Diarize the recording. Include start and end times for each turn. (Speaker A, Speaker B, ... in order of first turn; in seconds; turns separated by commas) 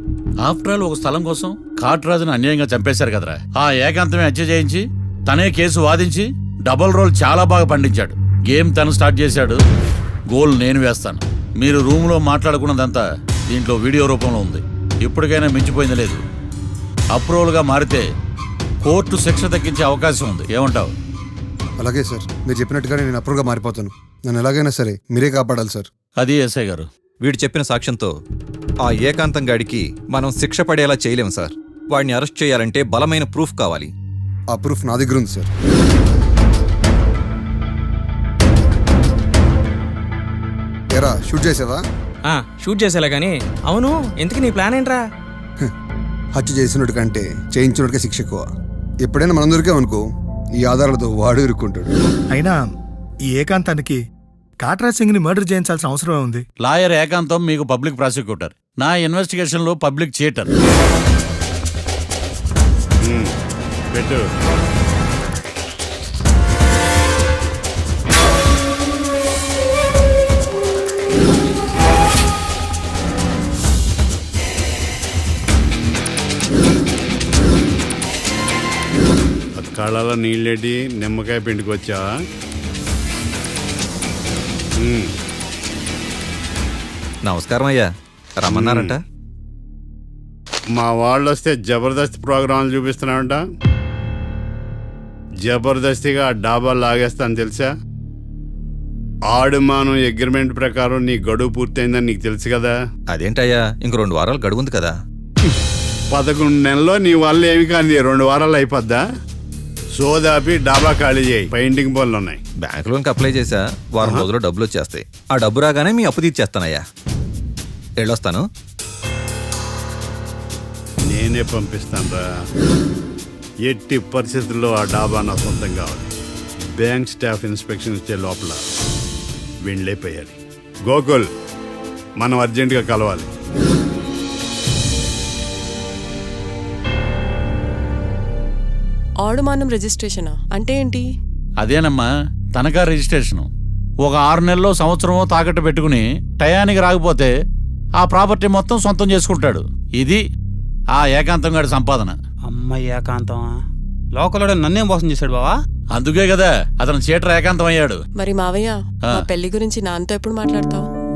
Speaker A: 0.4-9.6, Speaker A: 10.3-16.2, Speaker A: 17.1-18.1, Speaker A: 18.8-20.9, Speaker B: 21.8-25.9, Speaker A: 26.2-26.9, Speaker C: 27.2-28.1, Speaker C: 28.9-33.9, Speaker B: 34.5-35.5, Speaker B: 40.9-41.8, Speaker D: 42.3-45.0, Speaker B: 46.4-48.5, Speaker B: 49.0-50.0, Speaker B: 50.6-51.9, Speaker E: 52.3-52.6, Speaker E: 53.3-54.0, Speaker E: 54.6-56.4, Speaker A: 56.6-60.5, Speaker F: 63.1-63.3, Speaker F: 63.9-64.3, Speaker F: 79.6-82.1, Speaker F: 84.8-85.1, Speaker C: 87.3-89.0, Speaker F: 88.5-89.0, Speaker F: 90.7-93.4, Speaker F: 95.4-97.7, Speaker F: 99.3-102.7, Speaker C: 103.1-105.0, Speaker F: 106.1-109.0, Speaker F: 110.0-112.4, Speaker C: 112.6-116.8, Speaker C: 118.0-118.4, Speaker F: 121.1-122.2, Speaker F: 123.7-126.1, Speaker F: 126.8-128.7, Speaker F: 129.7-131.3, Speaker F: 132.2-133.3, Speaker G: 139.2-141.1, Speaker A: 141.6-143.5, Speaker A: 144.0-147.3, Speaker A: 148.0-150.2, Speaker A: 150.9-152.2, Speaker H: 152.5-153.6, Speaker H: 154.2-155.6, Speaker A: 155.9-158.0, Speaker G: 158.2-160.9